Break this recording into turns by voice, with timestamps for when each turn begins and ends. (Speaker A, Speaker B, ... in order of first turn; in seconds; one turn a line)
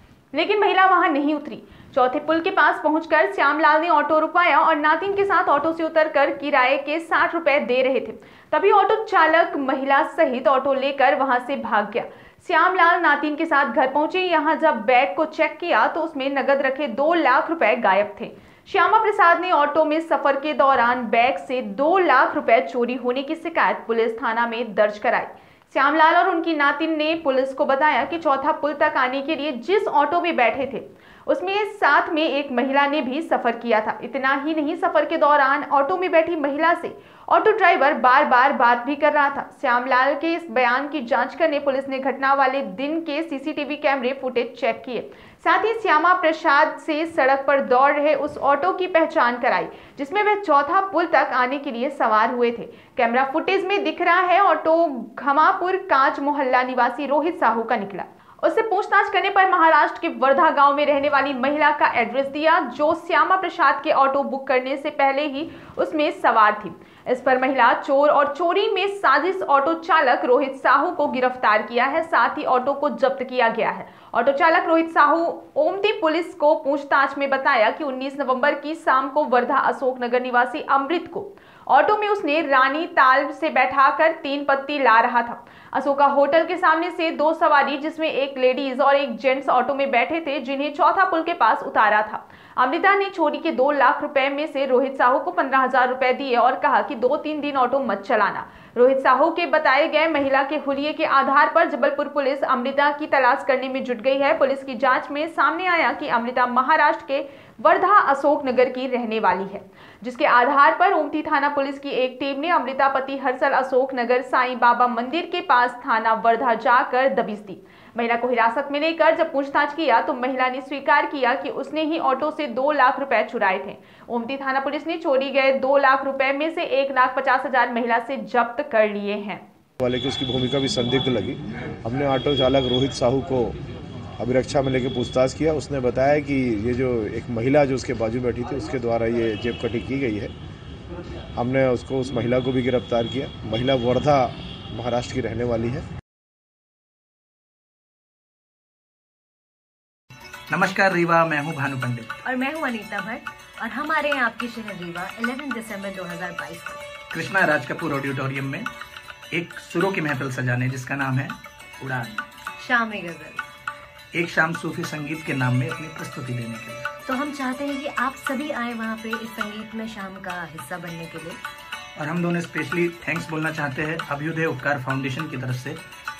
Speaker A: 0.3-129.4
Speaker B: 129.8-133.5
Speaker B: 134.2-140.3
Speaker B: 141.4-145.8
Speaker C: 150.5-152.2
Speaker D: 152.2-156.8
Speaker C: 157.1-158.7
Speaker C: 159.3-162.2
Speaker D: 162.6-163.4
Speaker C: 164.1-166.9
Speaker D: 167.1-171.4
Speaker C: 172.0-175.8